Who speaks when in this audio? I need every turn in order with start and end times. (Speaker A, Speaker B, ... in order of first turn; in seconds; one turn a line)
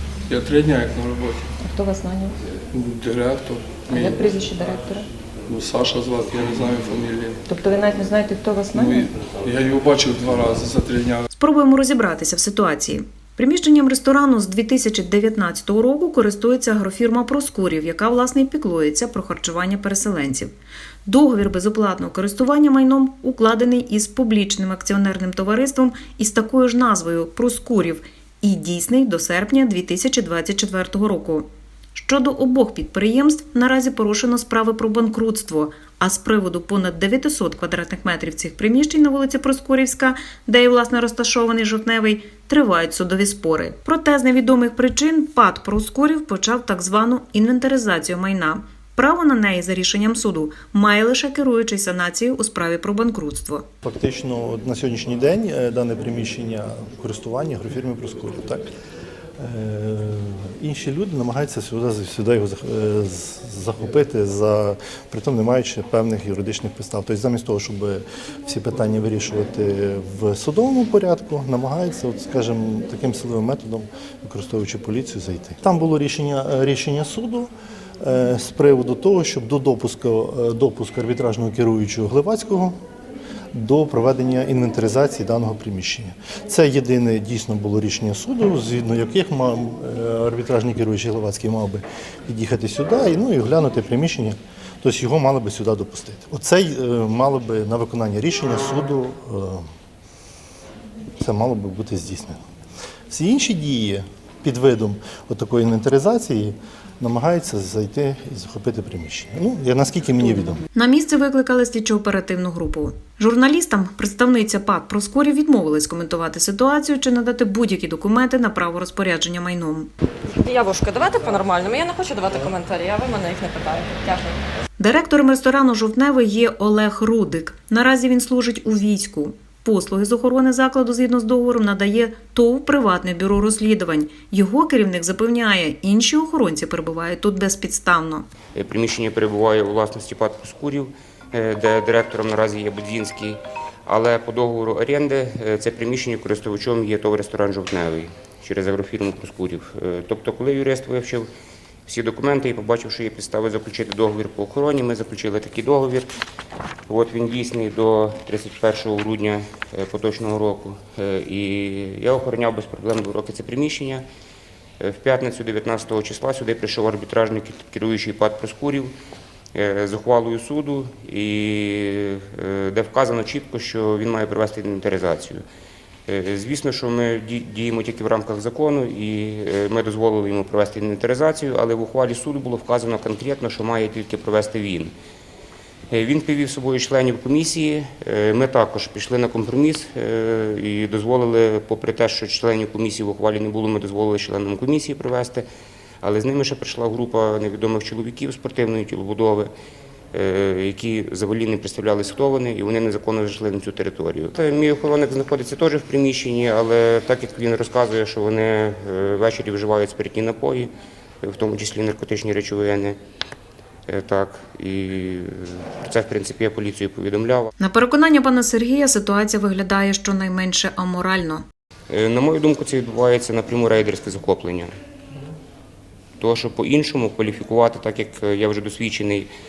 Speaker A: 0.3-1.5
Speaker B: 1.6-2.3
Speaker A: 2.7-4.2
Speaker B: 3.9-5.1
Speaker A: 5.5-7.4
Speaker B: 7.5-9.1
Speaker A: 8.8-11.2
Speaker C: 11.3-20.5
Speaker C: 21.1-53.6
Speaker D: 53.8-58.7
Speaker D: 59.4-82.8
Speaker D: 83.5-99.7
Speaker D: 101.2-102.4
Speaker D: 103.1-110.6
Speaker C: 110.8-119.9
Speaker E: 120.3-124.4
Speaker C: 124.8-138.3
Speaker F: 138.5-151.3
Speaker F: 151.9-156.1
Speaker F: 156.9-164.0
Speaker F: 164.8-168.9
Speaker F: 169.5-175.4
Speaker F: 176.1-184.9
Speaker F: 185.9-195.4
Speaker F: 196.0-199.5
Speaker F: 200.1-210.7
Speaker F: 211.2-213.0
Speaker F: 213.9-217.5
Speaker C: 217.6-221.4
Speaker F: 221.9-224.7
Speaker F: 226.2-229.3